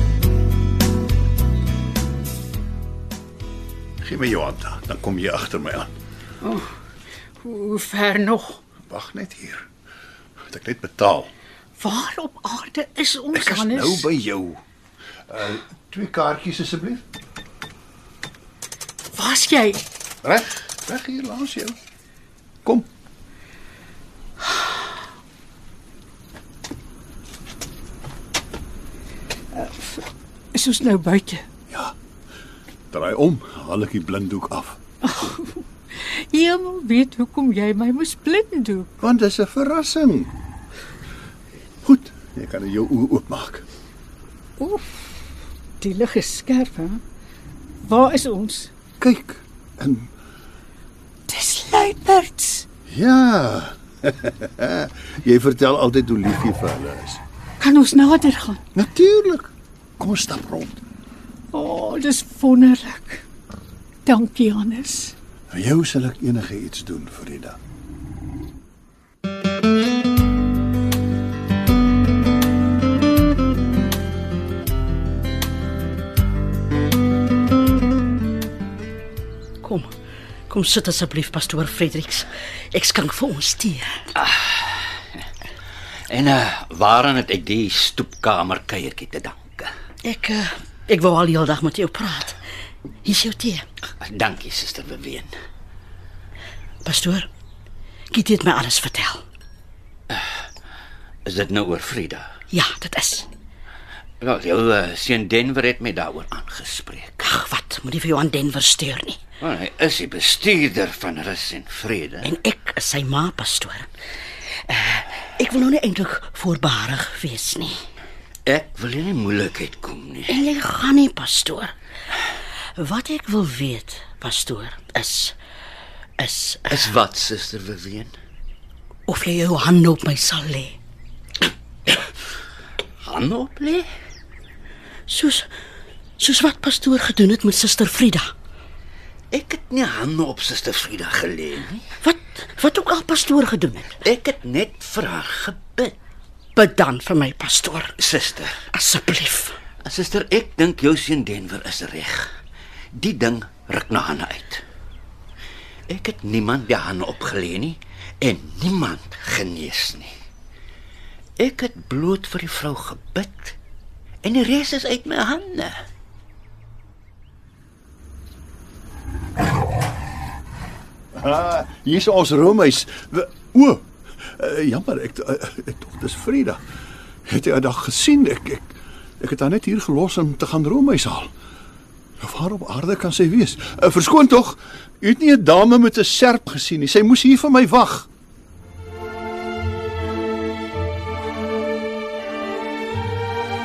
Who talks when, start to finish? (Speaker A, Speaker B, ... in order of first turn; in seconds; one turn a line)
Speaker A: 4.0-5.9
Speaker B: 6.4-6.7
Speaker B: 7.4-8.6
Speaker A: 8.9-9.7
Speaker A: 10.5-11.3
Speaker B: 11.8-14.1
Speaker A: 13.3-14.6
Speaker A: 15.3-17.0
Speaker B: 19.1-19.8
Speaker A: 20.2-21.8
Speaker B: 29.5-31.4
Speaker A: 32.9-34.8
Speaker B: 35.0-38.9
Speaker A: 39.0-40.3
Speaker A: 41.8-43.6
Speaker B: 44.6-45.2
Speaker B: 45.8-47.0
Speaker B: 47.8-48.7
Speaker A: 49.0-50.1
Speaker B: 51.3-52.6
Speaker A: 52.9-57.2
Speaker B: 57.6-58.6
Speaker A: 58.8-60.8
Speaker B: 61.5-63.2
Speaker B: 64.0-65.1
Speaker A: 65.5-67.6
Speaker C: 79.6-79.9
Speaker C: 80.5-84.0
Speaker D: 84.2-85.0
Speaker D: 86.1-89.7
Speaker C: 90.0-92.4
Speaker C: 93.0-93.6
Speaker D: 94.0-95.3
Speaker C: 96.8-97.3
Speaker C: 98.1-99.2
Speaker D: 100.1-100.3
Speaker D: 101.2-102.3
Speaker C: 102.5-103.3
Speaker D: 104.2-107.2
Speaker C: 107.2-109.2
Speaker D: 109.4-112.3
Speaker C: 112.2-113.9
Speaker C: 114.7-117.8
Speaker D: 118.5-120.4
Speaker C: 120.3-121.7
Speaker C: 122.8-125.3
Speaker C: 126.2-126.9
Speaker D: 126.7-128.1
Speaker C: 129.1-130.8
Speaker D: 133.0-133.8
Speaker C: 135.1-135.5
Speaker C: 136.2-138.3
Speaker D: 139.3-141.9
Speaker C: 142.0-144.0
Speaker D: 144.0-145.9
Speaker C: 146.5-148.0
Speaker D: 148.0-148.7
Speaker C: 148.7-149.6
Speaker D: 149.8-152.3
Speaker D: 152.9-154.6
Speaker D: 155.9-160.1
Speaker D: 161.4-163.6
Speaker D: 164.2-165.8
Speaker A: 171.1-176.6
Speaker A: 177.3-181.3
Speaker A: 182.2-188.1